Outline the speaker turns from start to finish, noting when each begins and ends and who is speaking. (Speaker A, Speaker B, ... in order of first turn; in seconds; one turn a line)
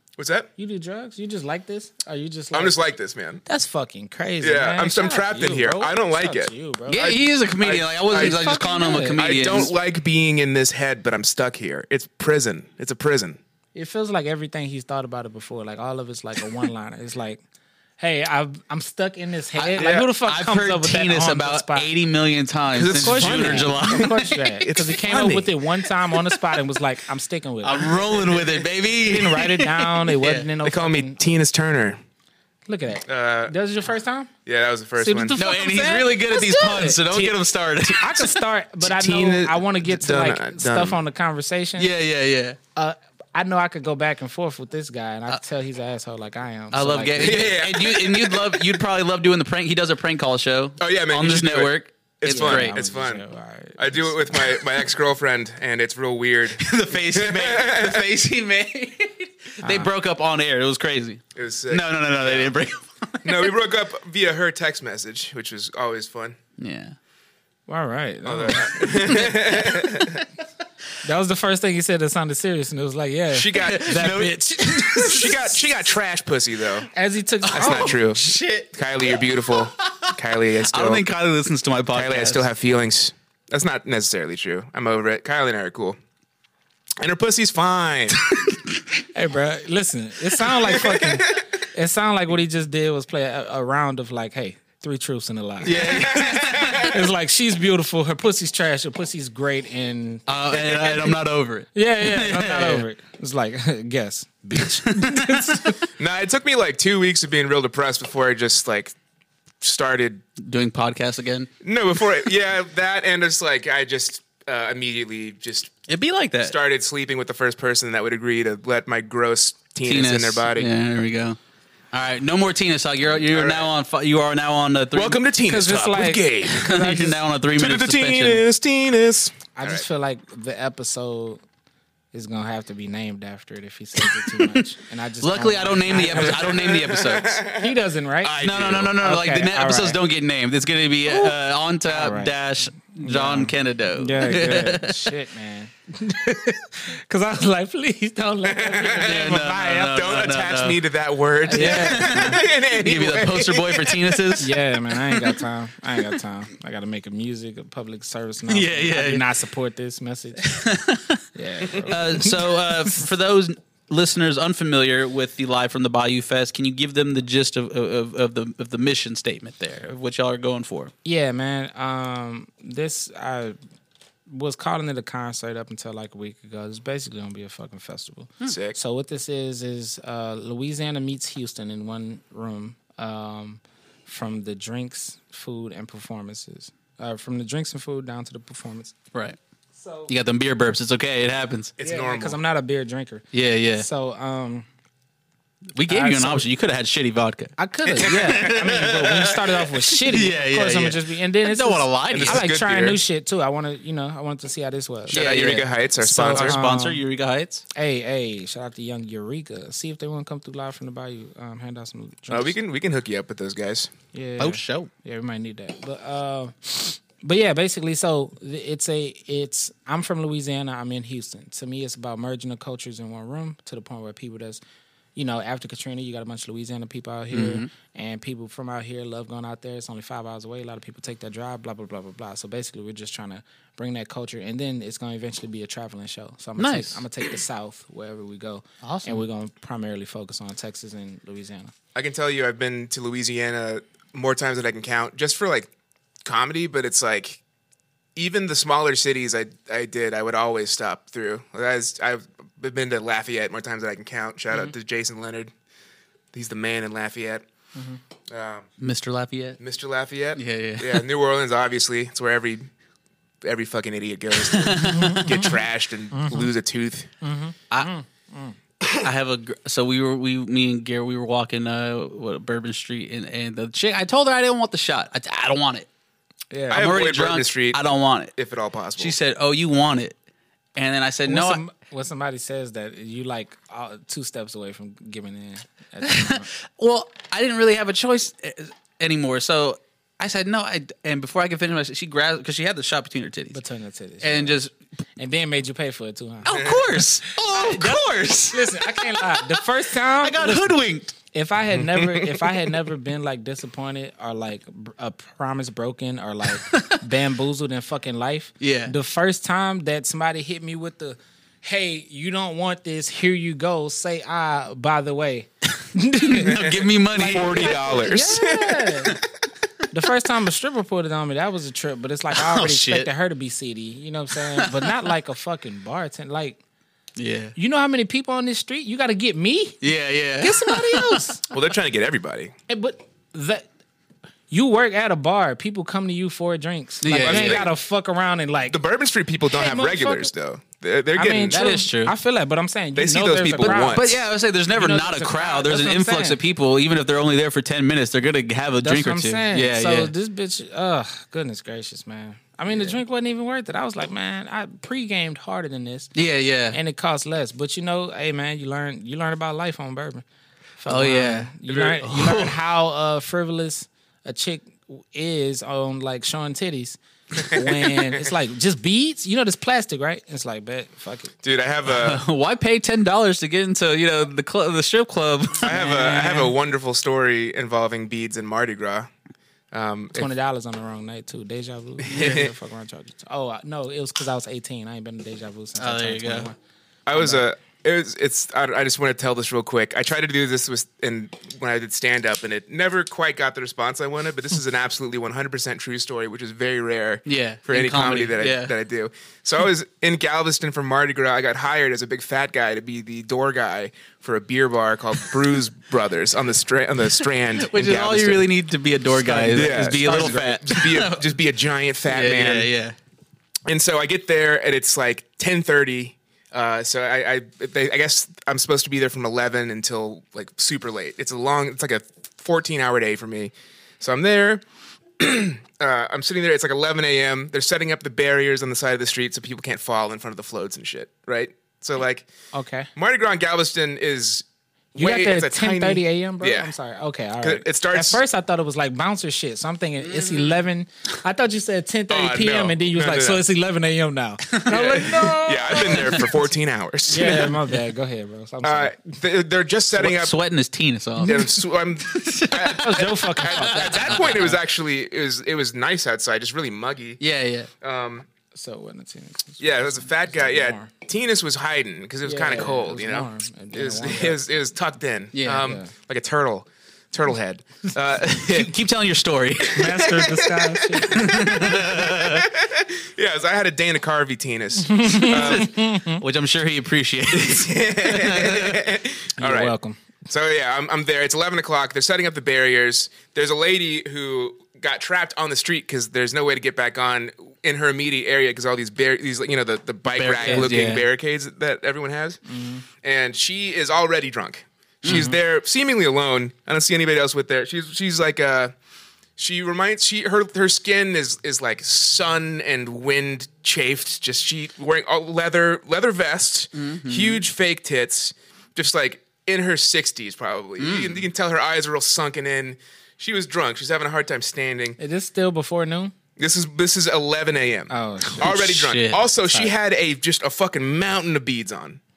Speaker A: 0.2-0.5
Speaker B: 0.6-2.7
Speaker A: 2.5-3.4
Speaker B: 3.5-7.2
Speaker A: 4.4-13.4
Speaker C: 6.9-9.7
Speaker B: 8.1-9.2
Speaker B: 13.7-17.4
Speaker B: 18.0-21.9
Speaker C: 19.6-24.4
Speaker A: 19.8-20.1
Speaker A: 22.7-25.6
Speaker B: 22.9-28.3
Speaker C: 27.6-30.5
Speaker B: 29.0-31.2
Speaker A: 30.6-32.0
Speaker B: 32.6-34.3
Speaker A: 33.1-33.5
Speaker A: 34.5-35.4
Speaker B: 35.0-37.0
Speaker C: 35.4-38.4
Speaker A: 37.1-37.4
Speaker B: 38.0-41.9
Speaker A: 38.8-41.0
Speaker C: 41.8-42.6
Speaker B: 42.7-47.5
Speaker C: 46.7-52.8
Speaker A: 47.2-48.8
Speaker A: 50.8-53.2
Speaker B: 52.3-54.4
Speaker A: 53.8-58.1
Speaker C: 56.6-63.5
Speaker B: 59.6-59.9
Speaker A: 61.4-62.5
Speaker A: 63.2-66.4
Speaker C: 66.6-67.0
Speaker B: 67.7-69.5
Speaker A: 68.2-70.2
Speaker B: 71.0-75.5
Speaker A: 73.3-74.4
Speaker C: 73.5-75.5
Speaker A: 75.0-76.9
Speaker B: 76.9-78.0
Speaker C: 77.4-82.5
Speaker A: 77.5-81.0
Speaker A: 81.9-86.0
Speaker A: 87.0-88.2
Speaker B: 89.0-100.2
Speaker A: 90.7-91.2
Speaker C: 95.6-97.0
Speaker A: 95.7-96.9
Speaker C: 100.3-102.9
Speaker B: 101.7-105.9
Speaker C: 104.5-105.7
Speaker A: 106.0-108.9
Speaker A: 109.6-110.2
Speaker C: 110.4-111.5
Speaker A: 111.6-115.7
Speaker C: 115.9-116.6
Speaker A: 116.4-120.7
Speaker C: 119.8-121.4
Speaker C: 121.9-125.2
Speaker A: 123.3-123.7
Speaker A: 124.9-126.6
Speaker B: 125.4-127.2
Speaker C: 126.5-128.4
Speaker A: 127.5-129.8
Speaker B: 129.6-131.4
Speaker B: 132.1-136.4
Speaker C: 135.2-137.4
Speaker A: 135.9-139.0
Speaker B: 137.6-138.4
Speaker C: 138.4-145.1
Speaker B: 139.0-140.0
Speaker B: 141.1-142.3
Speaker B: 142.9-150.0
Speaker A: 148.4-154.4
Speaker C: 148.9-150.8
Speaker B: 151.5-152.4
Speaker C: 151.5-154.6
Speaker B: 154.4-160.7
Speaker C: 158.5-159.2
Speaker C: 160.5-161.2
Speaker B: 161.3-162.5
Speaker C: 161.8-170.9
Speaker B: 171.1-173.6
Speaker B: 174.3-188.9
Speaker A: 178.4-178.8
Speaker B: 189.7-190.1
Speaker C: 190.1-191.7
Speaker A: 191.8-192.4
Speaker B: 191.8-194.7
Speaker C: 193.3-193.9
Speaker C: 195.7-202.4
Speaker B: 195.9-196.4
Speaker B: 197.6-207.0
Speaker A: 198.0-198.9
Speaker A: 202.1-203.0
Speaker A: 205.1-206.6
Speaker C: 205.1-205.7
Speaker C: 206.2-207.6
Speaker B: 207.7-212.6
Speaker A: 212.3-213.9
Speaker B: 214.1-224.6
Speaker C: 214.4-214.9
Speaker B: 225.2-241.7
Speaker C: 227.3-227.7
Speaker C: 236.6-237.1
Speaker C: 238.8-239.2
Speaker A: 241.9-245.7
Speaker A: 246.2-247.4
Speaker A: 248.2-255.5
Speaker A: 256.3-257.4
Speaker A: 258.3-258.7
Speaker C: 258.8-259.6
Speaker A: 259.6-262.7
Speaker C: 260.4-261.1
Speaker A: 263.4-267.1
Speaker C: 264.5-265.4
Speaker B: 265.0-265.4
Speaker B: 266.1-266.5
Speaker B: 267.2-268.6
Speaker C: 269.0-275.9
Speaker B: 276.5-276.9
Speaker A: 276.7-277.8
Speaker C: 276.7-278.3
Speaker A: 278.4-279.1
Speaker C: 279.0-280.1
Speaker C: 280.8-281.6
Speaker B: 281.2-286.5
Speaker C: 286.0-293.6
Speaker B: 293.5-294.6
Speaker C: 294.2-294.7
Speaker B: 295.2-296.8
Speaker C: 296.4-301.1
Speaker A: 296.5-296.8
Speaker B: 297.4-316.6
Speaker C: 306.5-307.1
Speaker C: 308.6-308.9
Speaker C: 316.2-318.1
Speaker A: 316.4-319.2
Speaker B: 317.1-319.2
Speaker B: 319.9-326.6
Speaker C: 322.3-323.1
Speaker C: 324.3-324.9
Speaker C: 327.1-327.5
Speaker B: 327.6-329.8
Speaker C: 329.8-331.4
Speaker B: 330.4-331.4
Speaker A: 331.5-332.5
Speaker B: 332.7-333.7
Speaker B: 334.5-338.8
Speaker C: 337.0-337.6
Speaker A: 337.1-337.7
Speaker A: 338.7-341.6
Speaker B: 339.5-340.3
Speaker B: 341.1-344.1
Speaker C: 341.5-342.1
Speaker A: 342.9-344.1
Speaker C: 343.6-350.1
Speaker B: 344.7-346.4
Speaker B: 348.8-356.1
Speaker C: 356.1-356.8
Speaker B: 356.7-360.2
Speaker B: 360.8-371.3
Speaker C: 360.9-362.6
Speaker A: 361.7-362.0
Speaker A: 371.4-372.2
Speaker C: 371.9-376.4
Speaker A: 375.6-379.1
Speaker B: 375.8-376.5
Speaker A: 379.7-380.3
Speaker B: 380.1-386.6
Speaker A: 382.1-382.5
Speaker C: 382.1-382.4
Speaker C: 385.8-386.5
Speaker A: 387.1-408.5
Speaker B: 387.1-387.4
Speaker C: 397.2-398.7
Speaker C: 407.6-411.2
Speaker A: 409.2-412.7
Speaker B: 409.4-410.4
Speaker C: 412.1-412.9
Speaker A: 413.7-424.6
Speaker A: 425.2-432.3
Speaker B: 432.5-432.9
Speaker A: 432.9-436.7
Speaker B: 434.9-446.4
Speaker A: 437.4-438.2
Speaker C: 440.0-440.6
Speaker A: 442.1-443.4
Speaker C: 444.5-446.2
Speaker A: 444.7-447.6
Speaker B: 447.1-449.0
Speaker C: 447.1-447.5
Speaker A: 448.6-450.4
Speaker C: 449.9-454.6
Speaker B: 451.2-451.5
Speaker A: 451.2-457.2
Speaker B: 452.6-454.6
Speaker C: 457.2-457.7
Speaker A: 457.8-458.3
Speaker B: 458.6-460.9
Speaker A: 459.6-468.7
Speaker B: 462.2-464.4
Speaker C: 465.3-465.7
Speaker B: 465.5-465.9
Speaker C: 468.3-470.1
Speaker B: 469.7-471.8
Speaker A: 469.8-475.9
Speaker C: 471.1-472.5
Speaker B: 474.8-476.2
Speaker C: 475.3-475.6
Speaker C: 476.2-478.8
Speaker A: 477.3-492.4
Speaker B: 479.4-480.0
Speaker C: 490.1-491.1
Speaker B: 492.5-492.9
Speaker A: 493.0-498.7
Speaker C: 495.0-495.4
Speaker B: 495.1-495.4
Speaker A: 499.4-515.0
Speaker C: 506.7-507.4
Speaker C: 510.8-511.2
Speaker B: 515.0-516.1
Speaker A: 516.4-522.0
Speaker B: 517.9-518.6
Speaker C: 518.3-519.2
Speaker B: 519.4-519.7